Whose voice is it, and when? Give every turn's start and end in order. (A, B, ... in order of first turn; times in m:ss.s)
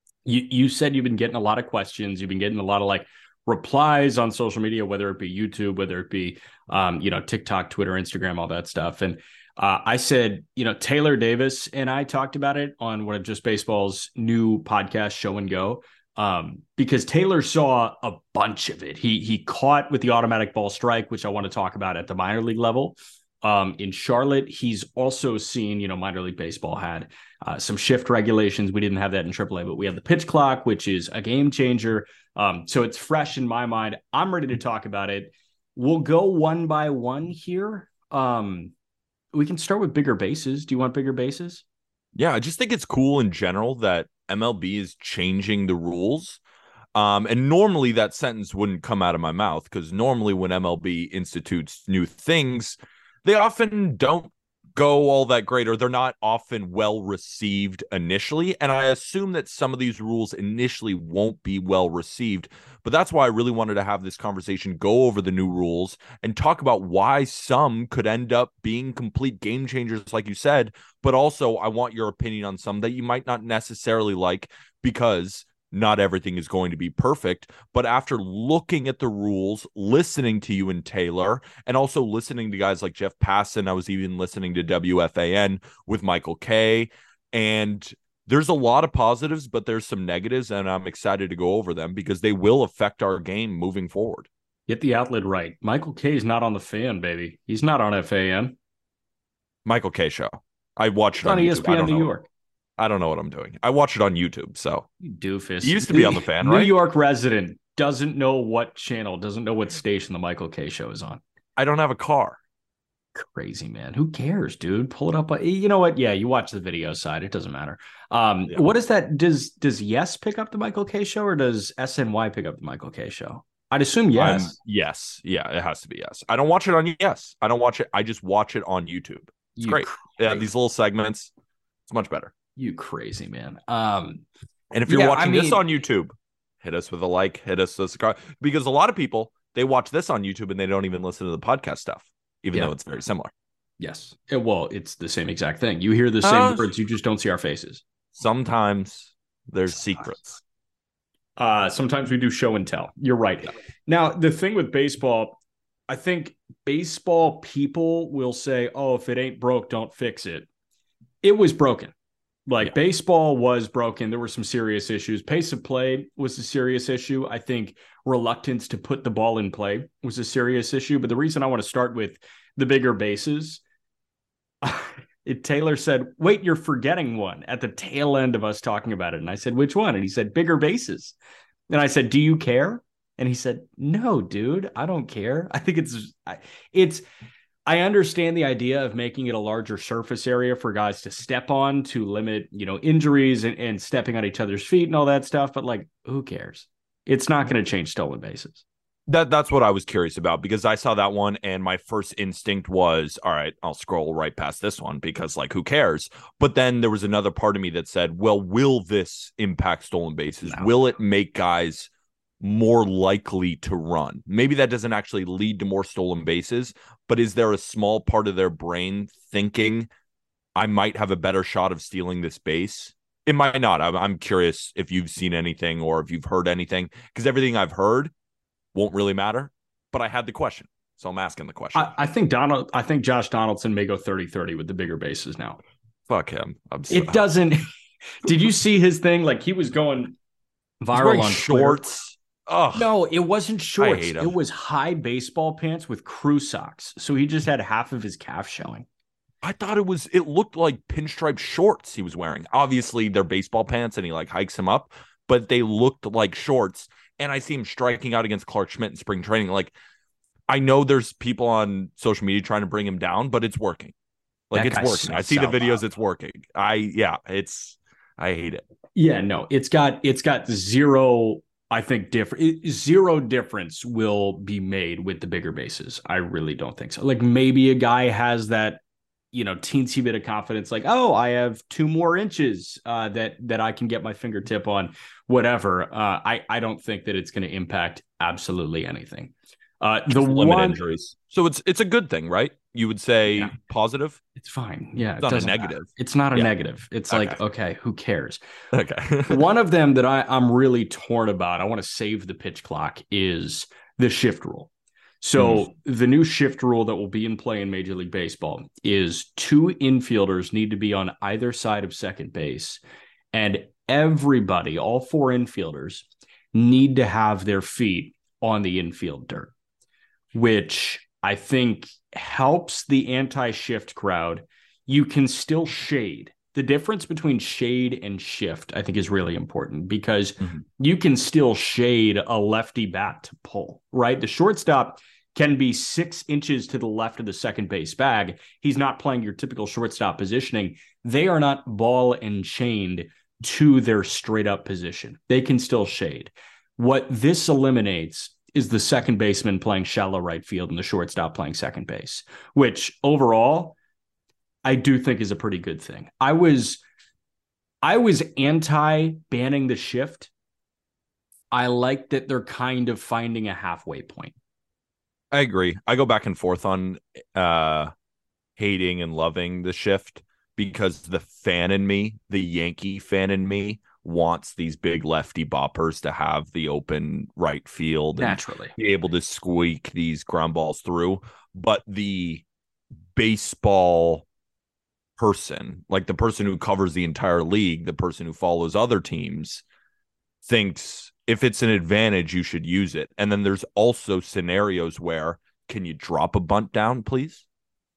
0:00.2-0:38.7 A
0:39.3-0:41.6 A
0:42.1-0:46.4 B
0:46.9-1:34.3 B
1:34.7-1:38.6 A
1:39.6-1:42.1 B
1:41.2-1:42.3 A
1:42.8-1:44.9 B
1:45.0-1:51.2 A
1:45.6-1:46.7 B
1:51.6-1:52.4 B
1:53.1-2:04.5 A
2:04.2-2:11.3 B
2:09.6-2:10.4 A
2:11.9-2:12.3 B
2:12.6-2:14.2 A
2:14.7-2:23.3 B
2:14.9-2:15.6 A
2:23.8-2:27.8 A
2:26.2-2:26.7 B
2:28.1-2:30.4 B
2:31.4-2:35.4 A
2:35.9-2:40.5 A
2:41.2-2:41.9 A
2:42.5-2:53.6 A
2:54.6-3:01.2 A
3:01.7-3:07.0 A
3:07.6-3:18.6 A
3:19.1-3:31.9 B
3:30.4-3:30.7 A
3:32.4-3:39.9 B
3:40.6-3:48.1 B
3:48.7-3:51.9 B
3:51.7-3:55.6 A
3:56.1-3:57.2 B
3:56.9-3:57.7 A
3:58.2-4:00.1 A
4:00.8-4:01.8 A
4:00.9-4:02.9 B
4:02.7-4:08.8 A
4:03.8-4:04.3 B
4:09.4-4:19.7 B
4:20.5-4:23.9 B
4:24.5-4:28.6 B
4:24.5-4:25.7 A
4:29.0-4:38.8 A
4:39.3-4:50.8 A
4:50.1-4:54.2 B
4:54.4-4:58.4 A
4:55.2-4:56.5 B
4:57.1-4:57.4 B
4:58.7-4:59.4 B
4:59.3-5:12.8 A
5:05.4-5:05.7 B
5:13.3-5:19.5 A
5:20.3-5:53.8 A
5:54.6-5:56.8 A
5:57.8-6:00.3 A
6:01.5-6:04.3 A
6:05.3-6:07.9 B
6:08.6-6:22.4 B
6:18.2-6:18.7 A
6:23.1-6:24.2 B
6:25.2-6:29.6 B
6:30.4-6:37.4 B